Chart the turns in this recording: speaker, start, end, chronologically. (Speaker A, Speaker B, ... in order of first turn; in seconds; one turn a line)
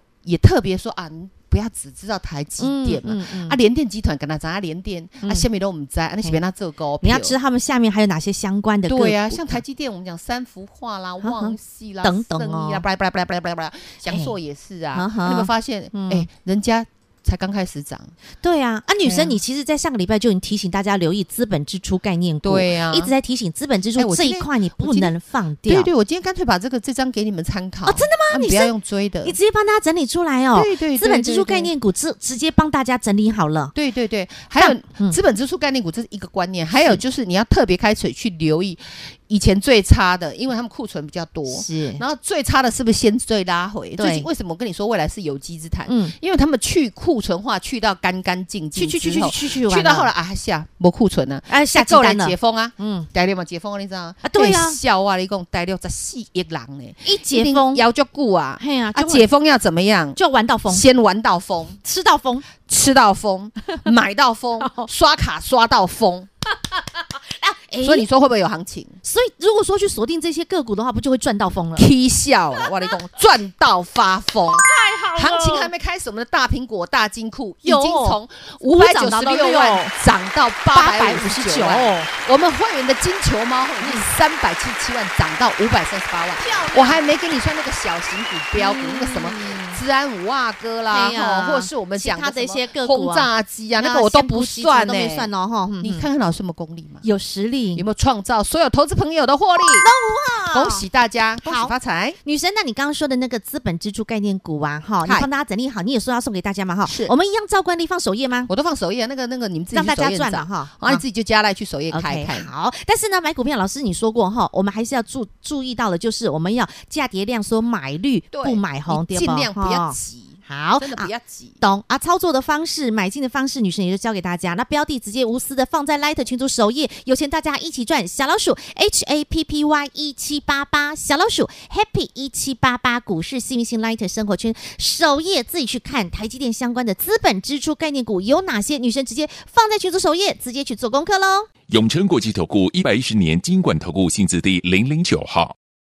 Speaker A: 0.2-7.3
Speaker B: 2.6-3.6
Speaker B: 7.0-9.6
Speaker A: 8.9-18.1
Speaker B: 11.2-12.8
Speaker B: 14.1-14.3
Speaker B: 14.9-16.3
Speaker B: 18.4-25.9
Speaker A: 19.0-19.4
Speaker A: 22.4-23.1
Speaker A: 24.0-25.1
Speaker A: 25.6-29.4
Speaker B: 27.8-28.7
Speaker B: 29.2-33.7
Speaker A: 30.5-31.7
Speaker A: 33.7-60.2
Speaker B: 34.6-35.2
Speaker B: 41.5-42.0
Speaker B: 44.0-44.3
Speaker B: 45.9-46.1
Speaker B: 48.7-50.1
Speaker B: 51.5-53.1
Speaker B: 54.2-54.8
Speaker B: 57.0-57.8
Speaker B: 58.6-59.3
Speaker B: 60.1-60.9
Speaker A: 60.7-61.8
Speaker B: 61.8-62.5
Speaker A: 62.6-66.3
Speaker B: 64.6-64.9
Speaker B: 67.1-68.1
Speaker A: 67.8-68.9
Speaker B: 69.0-71.9
Speaker A: 71.7-97.0
Speaker B: 74.7-75.7
Speaker B: 77.6-79.9
Speaker B: 80.7-82.1
Speaker B: 83.8-84.0
Speaker B: 86.4-87.0
Speaker B: 88.5-89.8
Speaker B: 90.9-96.0
Speaker B: 97.0-97.8
Speaker A: 97.7-99.9
Speaker B: 99.8-100.8
Speaker A: 100.5-102.2
Speaker B: 101.4-101.7
Speaker B: 102.2-108.5
Speaker A: 106.8-107.1
Speaker A: 108.5-112.5
Speaker B: 109.7-111.0
Speaker B: 111.9-121.1
Speaker A: 118.3-121.6
Speaker B: 121.6-141.5
Speaker C: 141.7-145.5